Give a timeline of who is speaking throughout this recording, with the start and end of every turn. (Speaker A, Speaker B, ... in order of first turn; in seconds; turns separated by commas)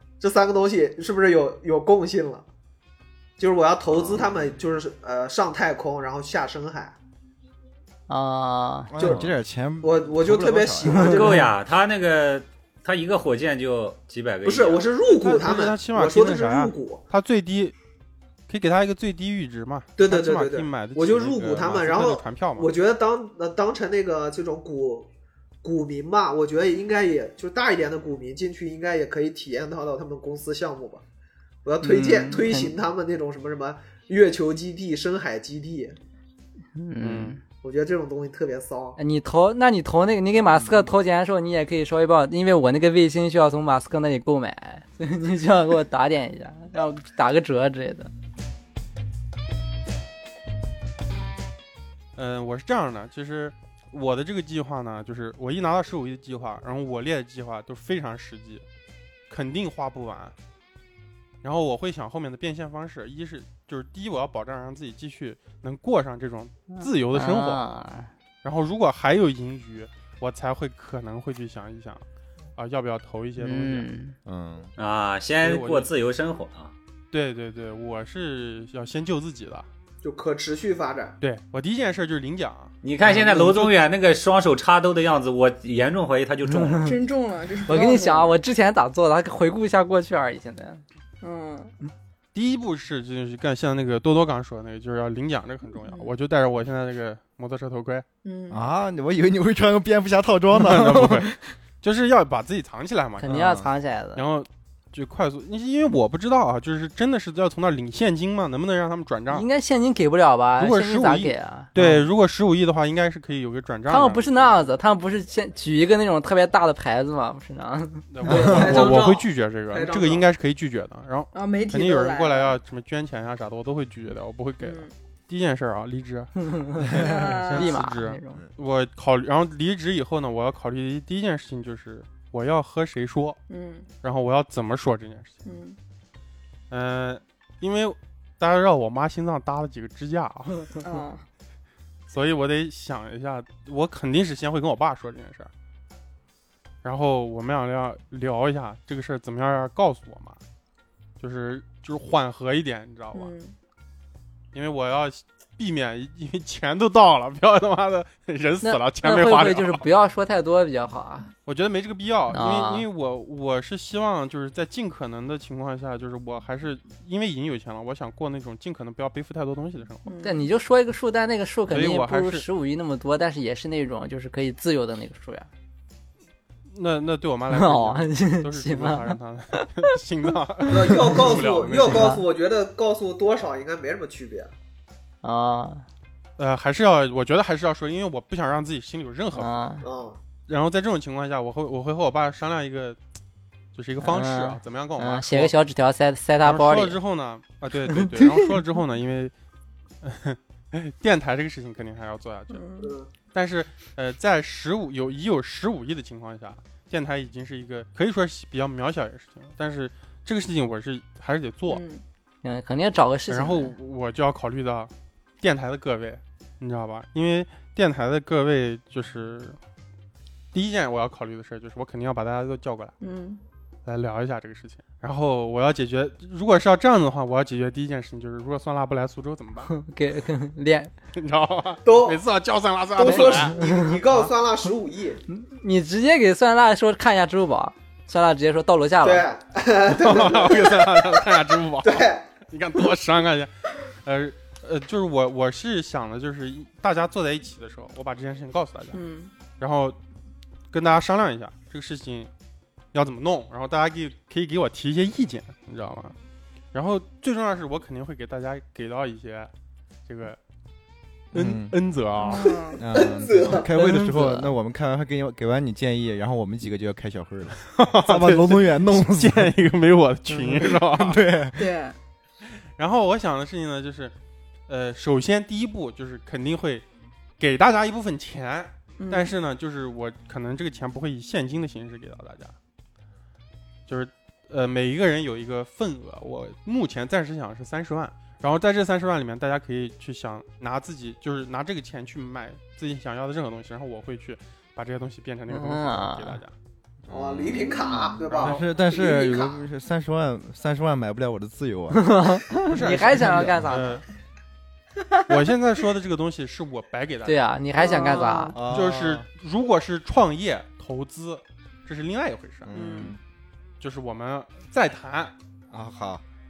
Speaker A: 0.2-2.4, Speaker A: 3.4-6.9, Speaker B: 3.9-4.3, Speaker C: 8.1-8.9, Speaker D: 8.9-11.2, Speaker A: 9.0-11.5, Speaker B: 11.0-14.8, Speaker A: 14.4-17.0, Speaker E: 15.1-17.7, Speaker E: 18.5-22.7, Speaker A: 20.0-25.1, Speaker A: 25.6-31.0, Speaker A: 31.6-36.0, Speaker C: 31.8-32.7, Speaker C: 36.8-37.4, Speaker E: 37.0-37.4, Speaker A: 37.6-39.0, Speaker C: 39.0-48.1, Speaker D: 40.5-40.9, Speaker E: 52.1-58.6, Speaker E: 59.3-60.3, Speaker E: 61.4-67.6, Speaker C: 66.7-68.1, Speaker E: 68.4-72.0, Speaker E: 72.6-73.9, Speaker C: 73.4-74.2, Speaker D: 74.2-74.7, Speaker B: 74.8-76.7, Speaker E: 75.4-75.9, Speaker E: 77.1-79.7, Speaker A: 80.0-81.2, Speaker E: 81.2-83.7, Speaker B: 82.8-86.9, Speaker C: 86.6-86.8, Speaker F: 86.8-88.4, Speaker C: 87.7-90.8, Speaker F: 91.2-91.7, Speaker E: 92.3-98.0, Speaker F: 95.8-96.1, Speaker F: 98.2-98.6, Speaker D: 98.5-101.2, Speaker E: 100.5-103.4, Speaker C: 103.2-104.2, Speaker D: 103.3-103.7, Speaker E: 104.1-109.5, Speaker C: 109.3-111.7, Speaker E: 110.6-114.5, Speaker D: 111.8-112.0, Speaker C: 113.9-118.6, Speaker E: 118.1-133.4, Speaker A: 118.3-120.3, Speaker D: 118.3-118.7, Speaker F: 121.3-122.6, Speaker F: 124.6-124.9, Speaker C: 126.5-128.4, Speaker F: 126.9-127.8, Speaker F: 133.5-133.9, Speaker E: 134.0-135.4, Speaker F: 135.4-135.8, Speaker E: 136.7-140.8, Speaker F: 140.8-141.2, Speaker E: 142.1-145.5, Speaker E: 146.8-150.4, Speaker E: 151.2-153.3, Speaker F: 153.1-153.5, Speaker E: 154.5-159.9, Speaker C: 158.6-161.3, Speaker E: 161.4-170.0, Speaker C: 162.3-162.8, Speaker F: 170.0-170.5, Speaker C: 170.2-175.5, Speaker E: 171.7-172.4, Speaker E: 176.7-182.1, Speaker C: 177.5-179.7, Speaker A: 180.7-184.5, Speaker C: 181.8-182.2, Speaker C: 185.2-185.8, Speaker E: 186.4-189.5, Speaker C: 189.3-189.8, Speaker A: 189.8-190.2, Speaker E: 190.5-193.0, Speaker E: 193.7-195.5, Speaker C: 194.0-197.0, Speaker E: 196.4-199.3, Speaker E: 200.0-202.6, Speaker F: 202.5-202.9, Speaker A: 202.8-203.1, Speaker E: 203.3-211.8, Speaker F: 211.7-212.0, Speaker C: 212.4-213.7, Speaker E: 213.3-219.6, Speaker E: 220.5-222.9, Speaker F: 223.0-223.4, Speaker E: 223.8-229.7, Speaker C: 229.7-230.9, Speaker E: 231.1-233.6, Speaker A: 231.8-232.2, Speaker A: 232.9-235.2, Speaker C: 233.0-233.9, Speaker C: 235.3-239.2, Speaker A: 239.0-241.2, Speaker E: 239.9-249.0, Speaker A: 241.8-242.2, Speaker F: 248.9-249.3, Speaker E: 249.6-250.0, Speaker E: 250.7-252.3, Speaker E: 252.9-256.1, Speaker E: 256.7-259.5, Speaker E: 260.1-260.4, Speaker E: 261.3-262.5, Speaker D: 261.3-261.8, Speaker F: 262.2-262.8, Speaker A: 262.5-263.7, Speaker D: 262.8-269.5, Speaker C: 263.8-264.5, Speaker E: 267.7-271.2, Speaker D: 270.3-271.7, Speaker F: 271.5-271.9, Speaker E: 272.8-274.1, Speaker E: 274.7-276.8, Speaker E: 277.4-282.5, Speaker F: 279.0-279.3, Speaker E: 283.9-296.5, Speaker C: 295.5-296.4, Speaker D: 297.1-297.8, Speaker A: 297.1-299.6, Speaker E: 298.3-298.6, Speaker D: 298.4-302.4, Speaker C: 301.9-304.0, Speaker E: 302.7-304.0, Speaker D: 302.9-303.8, Speaker E: 305.3-307.4, Speaker C: 307.2-308.5, Speaker F: 307.8-308.6, Speaker D: 308.5-309.2, Speaker E: 308.7-312.8, Speaker D: 312.6-313.2, Speaker F: 312.7-313.2, Speaker E: 313.8-315.3, Speaker D: 315.7-316.2